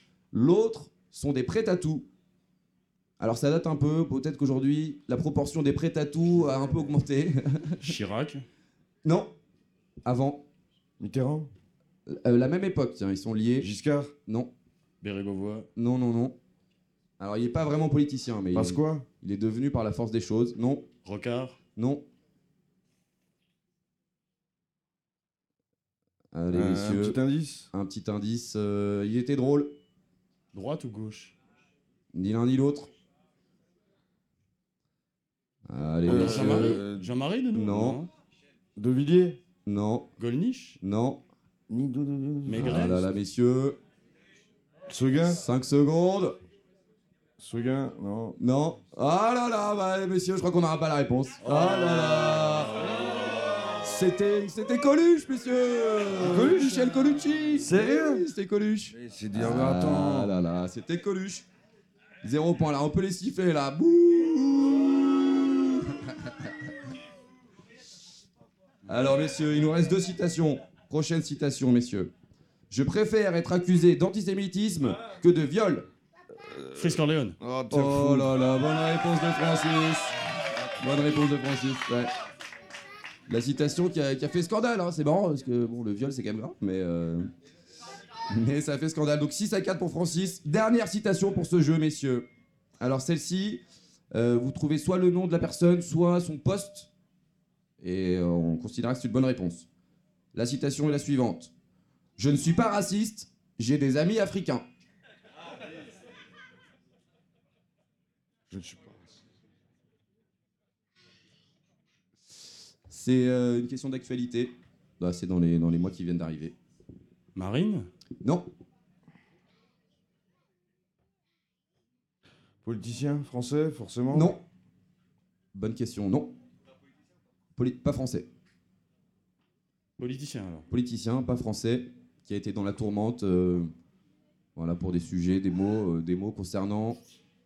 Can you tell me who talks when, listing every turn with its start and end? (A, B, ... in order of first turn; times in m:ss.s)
0:00.3-0:02.1 A
0:03.2-0:07.8 A
0:07.8-0:08.4 B
0:09.0-0:09.3 A
0:10.0-0:10.4 A
0:11.0-0:11.5 C
0:12.1-0:13.7 A
0:13.6-0:14.1 C
0:14.2-0:14.5 A
0:15.0-0:15.7 B
0:15.8-0:16.4 A
0:17.2-0:20.8 A
0:18.5-0:19.0 C
0:21.0-0:21.6 B
0:21.8-0:22.0 A
0:26.3-0:27.2 A
0:26.5-0:27.7 C
0:27.7-0:29.8 A
0:30.5-0:31.3 B
0:32.1-0:32.9 A
0:35.7-0:36.8 A
0:36.0-0:37.1 C
0:36.1-0:38.1 B
0:37.5-0:38.0 A
0:38.8-0:39.4 C
0:39.6-0:40.1 A
0:40.2-0:40.8 B
0:40.8-0:41.2 A
0:41.7-0:42.9 C
0:42.4-0:43.0 B
0:42.6-0:43.8 A
0:44.9-0:45.4 C
0:45.2-0:46.4 A
0:47.4-0:48.4 C
0:48.4-0:52.8 A
0:51.5-0:51.8 B
0:53.7-1:01.4 A
0:56.1-0:56.9 C
0:57.6-0:58.2 C
0:58.9-1:00.3 C
1:02.2-1:06.5 A
1:08.9-1:12.1 A
1:12.7-1:15.9 A
1:16.3-1:18.3 C
1:16.8-1:17.4 B
1:17.7-1:20.1 A
1:20.8-1:22.1 A
1:23.3-1:27.3 A
1:28.3-1:32.2 A
1:32.8-1:33.6 A
1:34.1-1:36.9 A
1:37.8-1:39.7 A
1:40.3-1:41.5 A
1:42.2-1:44.6 A
1:48.5-1:49.2 C
1:52.9-1:56.5 A
1:57.3-1:57.9 B
1:58.2-1:58.5 A
2:02.6-2:04.4 C
2:04.1-2:04.4 A
2:05.5-2:06.3 A
2:07.5-2:08.3 A
2:10.0-2:10.6 B
2:10.7-2:13.7 A
2:14.5-2:17.0 A